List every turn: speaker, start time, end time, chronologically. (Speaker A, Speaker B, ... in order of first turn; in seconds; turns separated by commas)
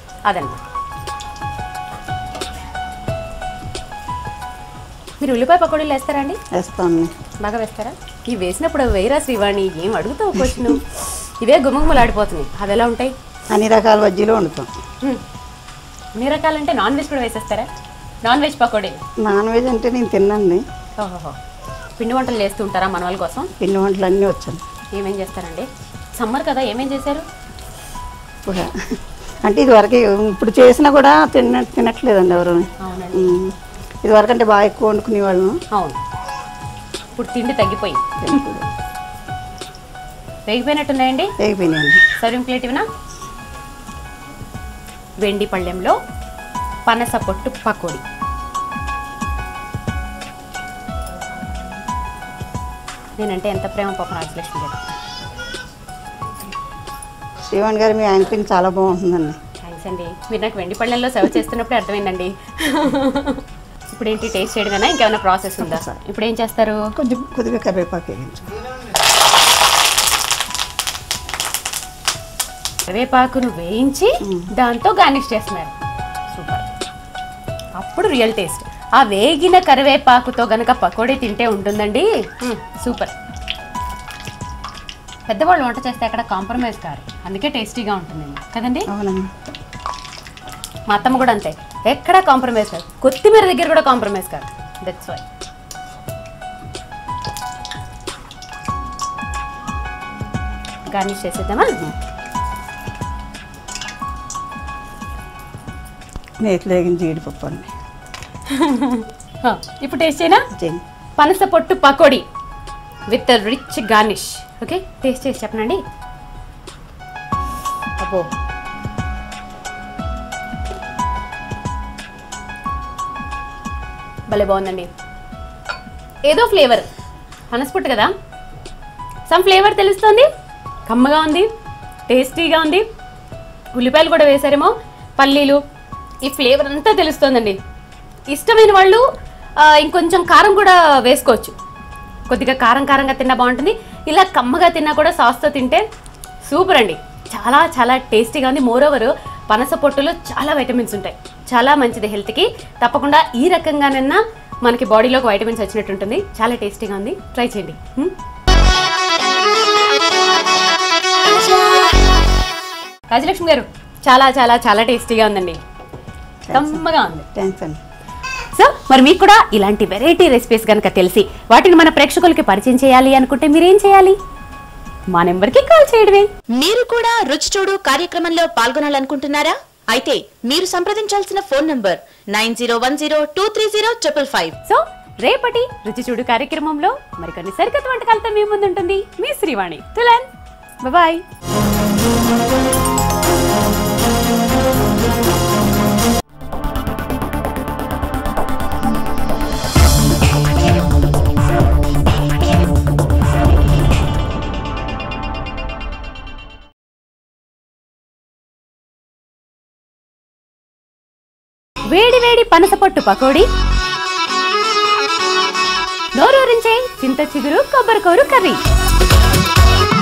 Speaker A: 0.3-0.6, Speaker A: 5.2-6.4, Speaker B: 6.5-7.1, Speaker A: 7.4-13.1, Speaker B: 13.5-14.7, Speaker A: 16.1-17.7, Speaker A: 18.2-19.0, Speaker B: 19.2-20.6, Speaker A: 21.0-21.4, Speaker A: 22.0-23.5, Speaker B: 23.6-24.6, Speaker A: 24.9-27.2, Speaker B: 28.4-35.6, Speaker A: 32.8-33.4, Speaker A: 35.7-36.0, Speaker A: 37.1-38.4, Speaker B: 38.2-38.7, Speaker A: 40.5-41.3, Speaker B: 41.4-42.0, Speaker A: 42.2-42.9, Speaker A: 45.2-46.0, Speaker A: 46.9-48.0, Speaker A: 53.2-54.8, Speaker B: 57.5-59.4, Speaker A: 59.6-66.9, Speaker B: 65.6-66.0, Speaker B: 66.9-68.6, Speaker A: 72.9-75.7, Speaker B: 74.2-74.5, Speaker A: 76.3-76.7, Speaker A: 77.8-83.1, Speaker A: 85.3-88.9, Speaker B: 88.9-89.3, Speaker A: 90.9-95.2, Speaker A: 100.9-101.8, Speaker B: 106.4-107.7, Speaker A: 108.5-110.5, Speaker B: 110.5-110.8, Speaker A: 111.2-112.2, Speaker A: 113.1-115.8, Speaker A: 118.0-118.3, Speaker A: 124.3-124.9, Speaker A: 126.2-126.9, Speaker A: 127.5-128.1, Speaker A: 129.3-130.3, Speaker A: 130.9-131.5, Speaker A: 132.1-132.8, Speaker A: 133.7-135.6, Speaker A: 136.2-137.6, Speaker A: 138.3-139.0, Speaker A: 139.6-141.5, Speaker A: 142.3-145.8, Speaker A: 146.5-158.1, Speaker A: 163.1-165.6, Speaker B: 166.4-166.8, Speaker A: 166.5-167.3, Speaker B: 167.3-167.8, Speaker A: 168.5-174.2, Speaker A: 175.1-176.3, Speaker C: 176.5-184.5, Speaker A: 184.6-190.3, Speaker A: 190.8-191.2, Speaker A: 211.9-213.5, Speaker A: 216.2-218.6